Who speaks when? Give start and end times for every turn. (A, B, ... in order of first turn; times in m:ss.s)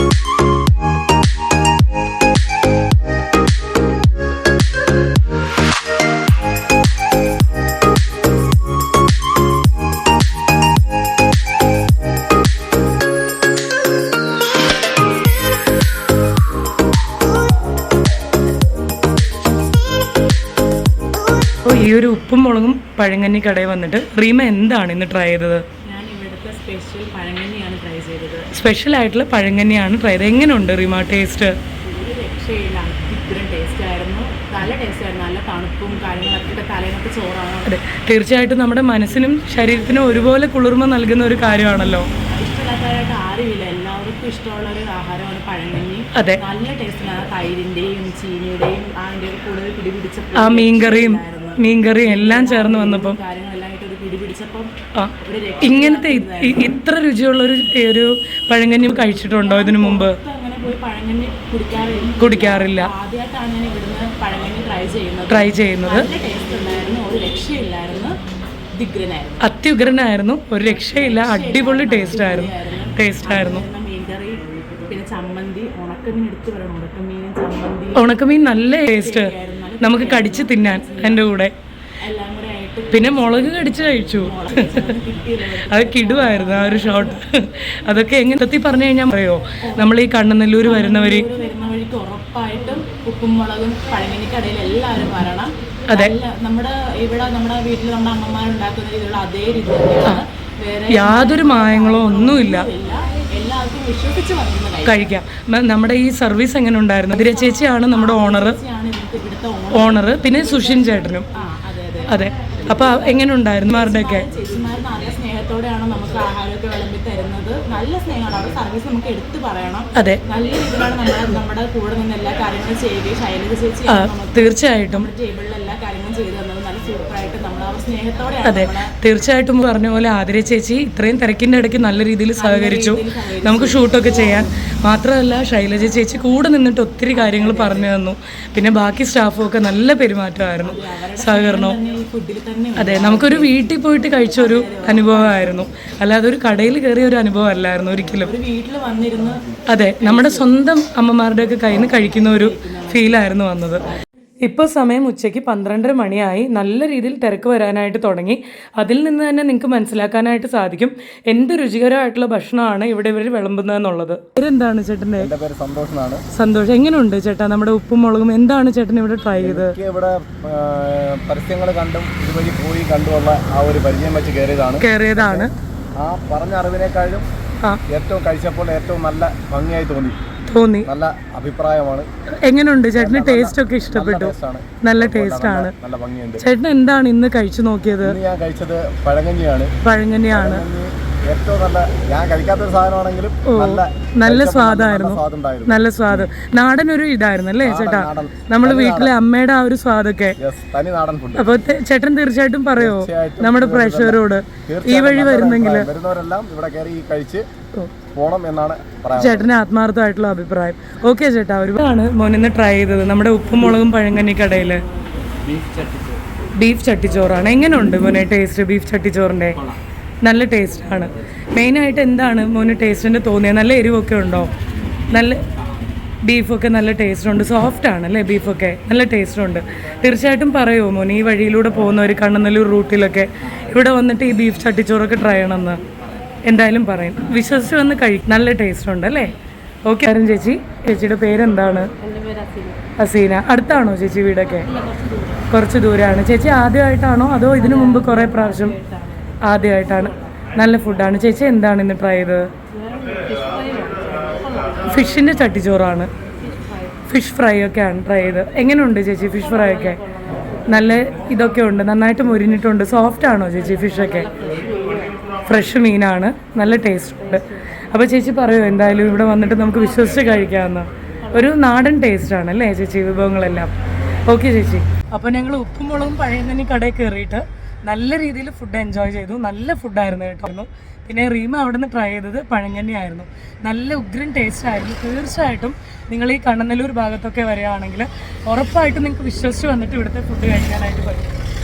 0:21.6-0:25.6 A
0:25.9-0:28.5 B
0:28.5-0:31.6 A
0:31.8-0:37.7 B
0:37.6-0:42.1 A
0:42.3-0:54.7 B
0:46.1-0:46.4 A
0:50.3-0:53.2 A
0:55.0-1:00.2 A
0:55.2-0:56.7 B
0:59.4-1:08.1 B
1:02.2-1:02.9 A
1:05.3-1:06.1 A
1:08.7-1:09.5 B
1:09.4-1:13.7 A
1:10.6-1:18.2 B
1:17.9-1:21.5 A
1:18.9-1:21.3 B
1:22.0-1:27.2 B
1:22.9-1:25.0 A
1:25.7-1:31.3 A
1:29.6-1:30.0 B
1:30.6-1:45.1 B
1:35.9-1:36.2 A
1:40.9-1:42.7 A
1:44.8-1:48.6 A
1:47.1-2:08.9 B
1:49.7-1:51.3 A
1:52.1-1:54.3 A
2:00.0-2:00.2 A
2:03.9-2:05.1 A
2:08.4-2:21.8 A
2:12.3-2:14.5 B
2:17.1-2:17.9 B
2:20.6-2:23.7 B
2:22.8-2:28.3 A
2:24.3-2:25.5 B
2:28.2-2:29.4 B
2:29.7-2:33.8 A
2:30.0-2:30.5 B
2:31.9-2:33.3 B
2:34.4-2:45.3 A
2:45.2-2:46.2 C
2:46.4-2:49.8 A
2:49.4-2:57.3 C
2:54.8-2:55.5 A
2:57.9-3:00.2 C
3:00.5-3:00.9 A
3:00.8-3:02.1 C
3:02.4-3:05.7 A
3:03.0-3:06.4 C
3:06.4-3:08.2 A
3:08.0-3:09.7 C
3:09.8-3:10.7 A
3:10.3-3:16.2 C
3:13.4-3:20.4 A
3:17.6-3:19.2 C
3:20.4-3:21.5 C
3:21.4-3:25.9 A
3:22.8-3:27.5 C
3:28.1-3:29.5 C
3:29.2-3:34.8 A
3:36.6-3:39.6 A
3:40.2-3:44.5 A
3:45.1-3:45.4 A
3:46.2-3:55.8 A
3:56.4-3:59.3 A
3:59.8-4:01.9 A
4:02.0-4:02.8 B
4:03.0-4:04.7 A
4:04.6-4:05.5 B
4:05.5-4:08.8 A
4:07.6-4:10.3 B
4:09.4-4:12.5 A
4:12.7-4:15.0 B
4:14.9-4:16.1 A
4:16.5-4:16.9 B
4:17.1-4:20.0 A
4:20.7-4:24.4 A
4:24.2-4:25.1 B
4:25.5-4:33.7 A
4:34.3-4:51.3 A